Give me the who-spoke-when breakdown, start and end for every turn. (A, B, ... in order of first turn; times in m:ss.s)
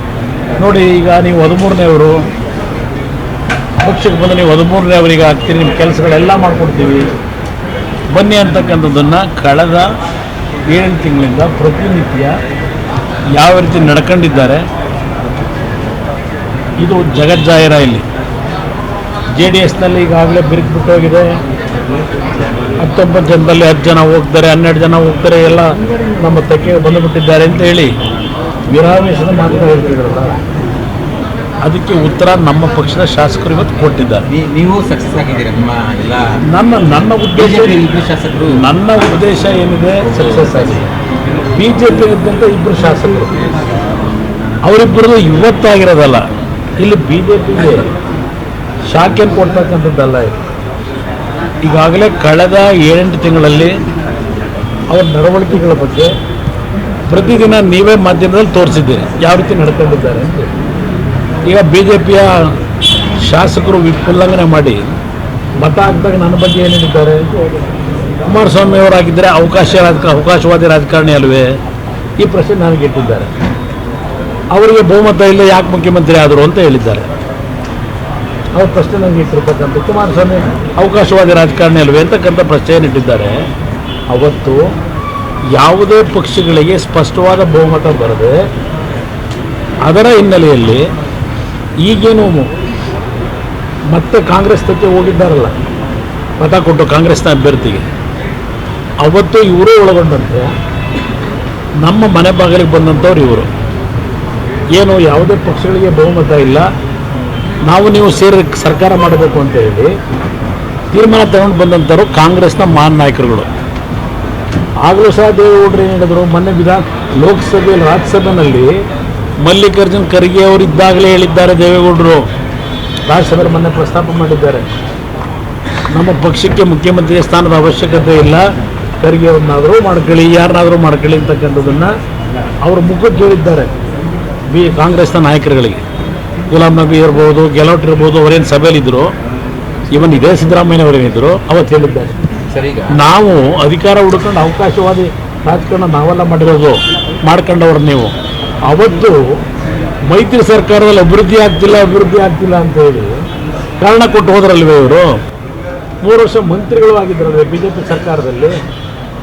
0:00.6-0:02.3 A
0:03.8-0:07.1 A
0:08.1-0:09.9 A
0:10.7-0:12.3 A
0:13.4-0:14.6 A
0:16.8-0:18.0 A
0:19.4-0:21.3 A
0:22.8-0:25.7 A
0:26.2-0:27.9 A
0:28.7-0:30.4 A
0:31.6-0:34.3 A
0:34.3-0:36.4 B
0:36.5-0:37.8 A
0:37.3-0:38.6 B
0:38.5-0:40.9 A
0:40.0-0:40.8 B
0:41.6-0:43.3 A
0:44.7-0:46.2 A
0:46.8-0:47.9 A
0:48.9-0:50.4 A
0:51.6-0:53.7 A
0:54.9-0:56.1 A
0:57.1-1:00.5 A
1:01.5-1:02.5 A
1:03.2-1:04.8 A
1:05.6-1:07.2 A
1:08.2-1:11.5 A
1:12.2-1:13.3 A
1:14.5-1:17.1 A
1:18.6-1:23.4 A
1:24.1-1:24.6 A
1:25.6-1:28.3 A
1:29.9-1:30.9 A
1:31.8-1:32.5 A
1:33.9-1:35.6 A
1:36.4-1:37.9 A
1:39.0-1:40.5 A
1:41.8-1:43.5 A
1:44.8-1:46.7 A
1:47.7-1:49.9 A
1:50.9-1:53.5 A
1:54.8-1:58.7 A
1:59.4-2:02.3 A
2:03.1-2:04.7 A
2:05.9-2:08.4 A
2:09.0-2:11.9 A
2:12.7-2:13.7 A
2:14.5-2:15.8 A
2:16.5-2:19.1 A
2:19.9-2:22.2 A
2:22.5-2:23.0 B
2:22.9-2:28.1 A
2:28.7-2:29.2 A
2:30.1-2:33.1 A
2:33.8-2:35.1 A
2:36.0-2:38.6 A